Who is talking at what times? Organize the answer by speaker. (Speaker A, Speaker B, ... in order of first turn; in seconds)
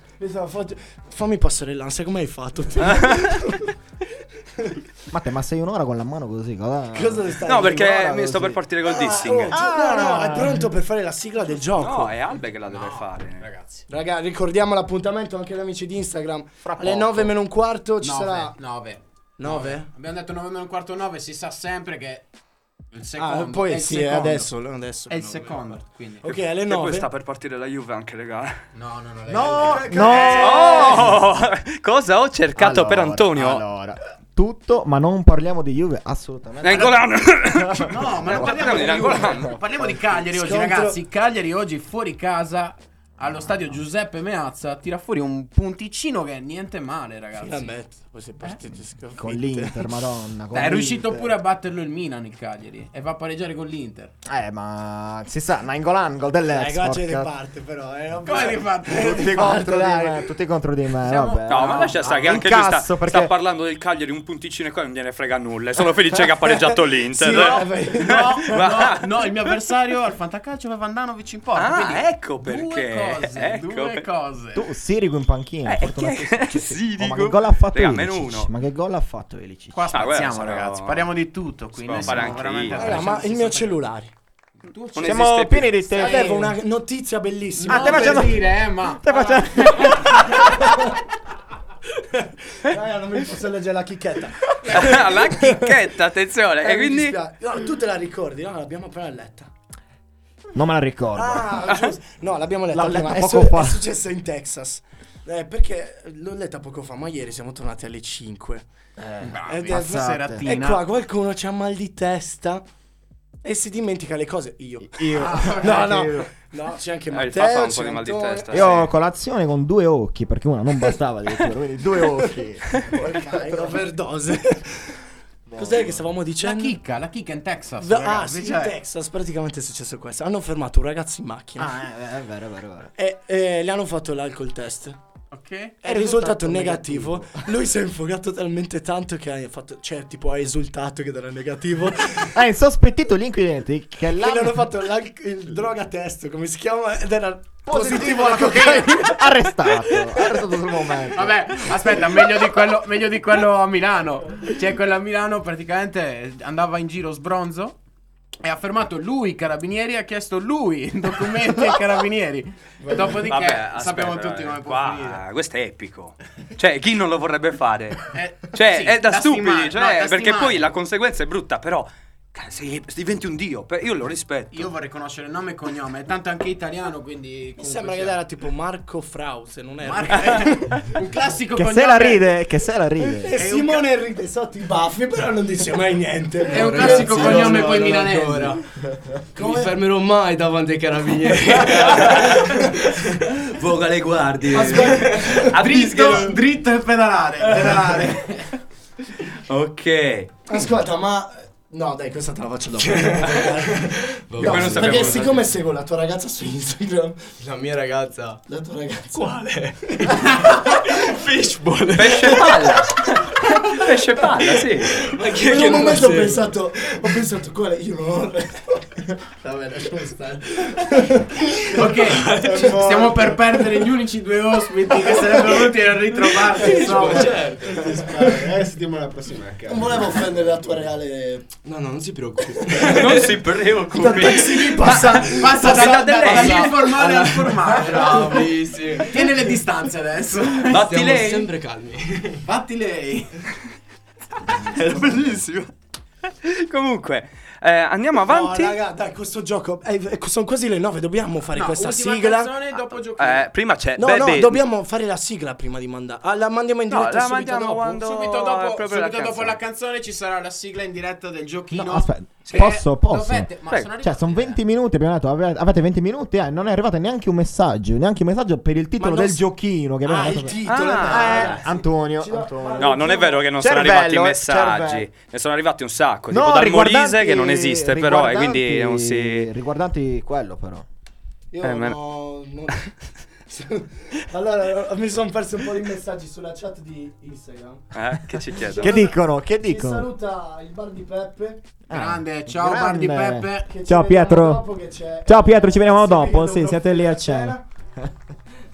Speaker A: 0.2-3.7, 6.9-12.1, 13.9-18.6, 19.4-19.9, 23.2-27.1, 29.9-30.3, 40.1-41.0, 47.4-49.9, 56.5-60.3, 67.2-68.6, 82.7-84.1, 86.0-88.4, 90.4-90.8, 92.1-95.8, 96.6-99.5, 101.2-108.7, 109.5-112.7, 113.4-118.8, 122.9-125.0, 125.5-126.8, 127.8-131.8, 133.0-135.0, 135.8-142.3, 144.1-150.4, 177.6-180.9, 183.2-187.6, 189.4-189.8, 192.0-192.7, 194.5-195.6, 197.5-198.2, 200.5-207.2, 208.5-209.4, 215.3-218.9, 220.7-221.4, 226.7-227.4, 228.0-228.4, 229.7-231.5, 232.5-233.3, 233.9-236.7, 237.9-238.4, 248.2-252.6, 254.0-258.0, 269.0-269.4, 270.0-273.4, 281.5-282.8, 283.5-287.8, 288.6-291.6, 293.7-297.6
Speaker B: 2.9-3.2, 7.5-9.6, 11.8-13.4, 26.7-28.6, 30.4-33.6, 36.6-39.6, 61.5-69.1, 71.6-74.1, 75.7-78.5, 79.9-81.1, 81.8-83.0, 85.0-85.9, 94.7-97.2, 117.1-118.9, 163.1-174.7, 191.7-192.5, 193.5-196.3, 197.5-198.1, 199.5-200.3, 204.4-205.4, 211.9-215.0, 232.8-236.8, 240.7-241.5, 244.6-245.7, 246.4-248.8, 252.9-254.7, 256.9-259.6, 270.6-271.6, 272.8-279.5, 281.6-282.0, 287.9-289.0
Speaker C: 5.1-7.5, 9.5-10.7, 16.6-17.4, 29.3-31.2, 32.6-39.6, 49.2-51.4, 54.2-57.3, 58.9-63.3, 74.5-80.0, 82.0-82.4, 85.0-86.5, 87.7-90.9, 100.5-101.8, 102.7-103.8, 109.0-110.5, 114.8-116.3, 118.5-122.9, 123.5-123.9, 125.5-126.0, 131.6-132.9, 135.9-137.1, 142.3-144.7, 147.7-151.8, 181.6-183.3, 261.7-275.1, 276.3-280.9, 288.7-290.1, 291.9-294.7, 295.2-298.1
Speaker D: 12.7-13.9, 18.0-22.3, 22.9-24.5, 25.1-26.3, 28.7-31.1, 36.7-37.0, 37.8-47.7, 48.4-48.7, 50.5-54.1, 58.2-59.6, 61.0-62.5, 67.3-74.7, 79.7-83.8, 84.6-86.4, 87.6-90.2, 94.7-95.0, 109.2-110.9, 115.1-116.0, 126.4-128.7, 135.3-136.7, 151.1-157.8, 158.4-165.2, 168.1-170.7, 174.5-178.2, 179.8-182.3, 183.4-183.8, 186.5-188.6, 195.5-198.3, 221.7-227.4, 235.2-238.4, 239.0-240.8, 242.4-243.3, 251.5-253.5, 258.0-264.6, 291.9-293.7
Speaker E: 186.5-188.6, 189.4-193.2, 194.8-195.5, 202.8-205.3, 207.4-208.4, 209.1-212.9, 213.4-217.2, 219.4-220.4, 222.1-222.8, 226.4-227.8, 231.6-233.4, 236.3-239.2, 240.7-242.4
Speaker F: 222.4-223.3, 227.6-230.9